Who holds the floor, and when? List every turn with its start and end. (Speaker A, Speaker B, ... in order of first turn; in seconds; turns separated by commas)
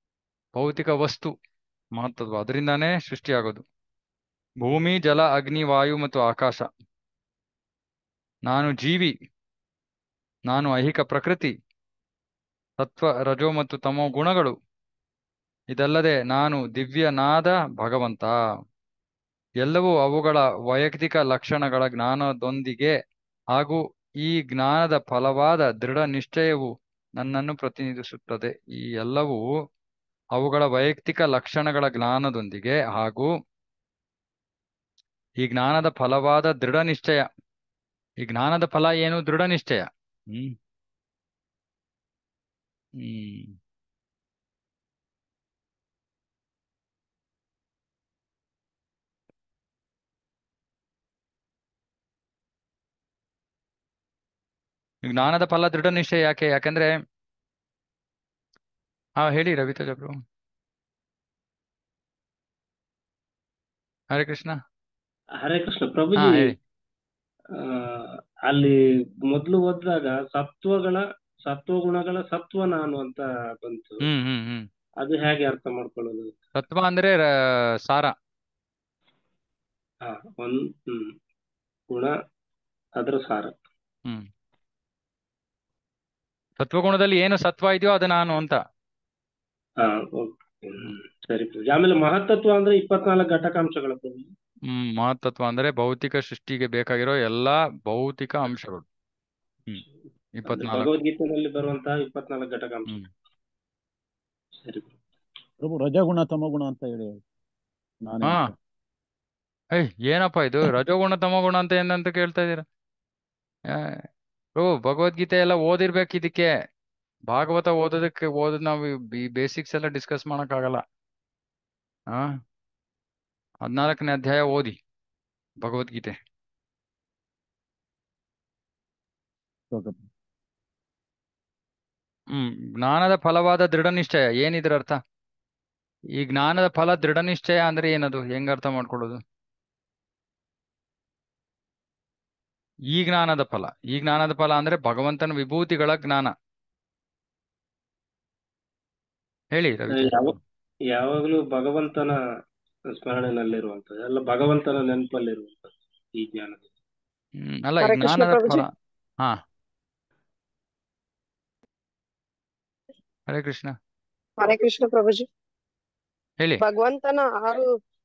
Speaker A: 0.6-1.3, Speaker A: 2.0-3.6, Speaker A: 4.6-6.7, Speaker A: 8.5-9.1, Speaker A: 10.5-11.5, Speaker A: 12.8-14.5, Speaker A: 15.7-18.3, Speaker A: 19.6-22.9, Speaker A: 23.6-29.4, Speaker A: 30.4-33.3, Speaker A: 35.4-37.3, Speaker A: 38.2-40.5, Speaker A: 43.0-43.5, Speaker A: 55.1-56.9, Speaker A: 59.2-60.1, Speaker A: 64.1-64.6, Speaker B: 65.4-66.5, Speaker A: 66.2-66.5, Speaker B: 67.5-74.0, Speaker A: 74.0-74.7, Speaker B: 75.0-76.3, Speaker A: 76.5-78.1, Speaker B: 80.0-81.1, Speaker B: 81.9-82.2, Speaker B: 83.0-83.5, Speaker A: 86.6-88.6, Speaker B: 89.8-94.3, Speaker A: 94.7-98.8, Speaker A: 100.4-100.9, Speaker B: 100.5-102.9, Speaker B: 104.6-104.9, Speaker C: 105.6-107.2, Speaker C: 108.0-108.5, Speaker A: 108.2-108.5, Speaker A: 109.8-112.6, Speaker A: 113.7-114.0, Speaker A: 114.6-116.5, Speaker A: 117.3-120.8, Speaker A: 123.7-124.8, Speaker A: 125.6-126.2, Speaker C: 129.7-130.0, Speaker A: 132.3-135.0, Speaker A: 136.2-139.2, Speaker A: 142.9-146.3, Speaker A: 149.6-150.4, Speaker B: 149.9-150.3, Speaker B: 150.9-152.2, Speaker B: 152.9-156.7, Speaker A: 157.4-158.7, Speaker D: 157.8-158.6, Speaker A: 163.3-163.7, Speaker D: 164.4-165.2, Speaker D: 166.6-167.6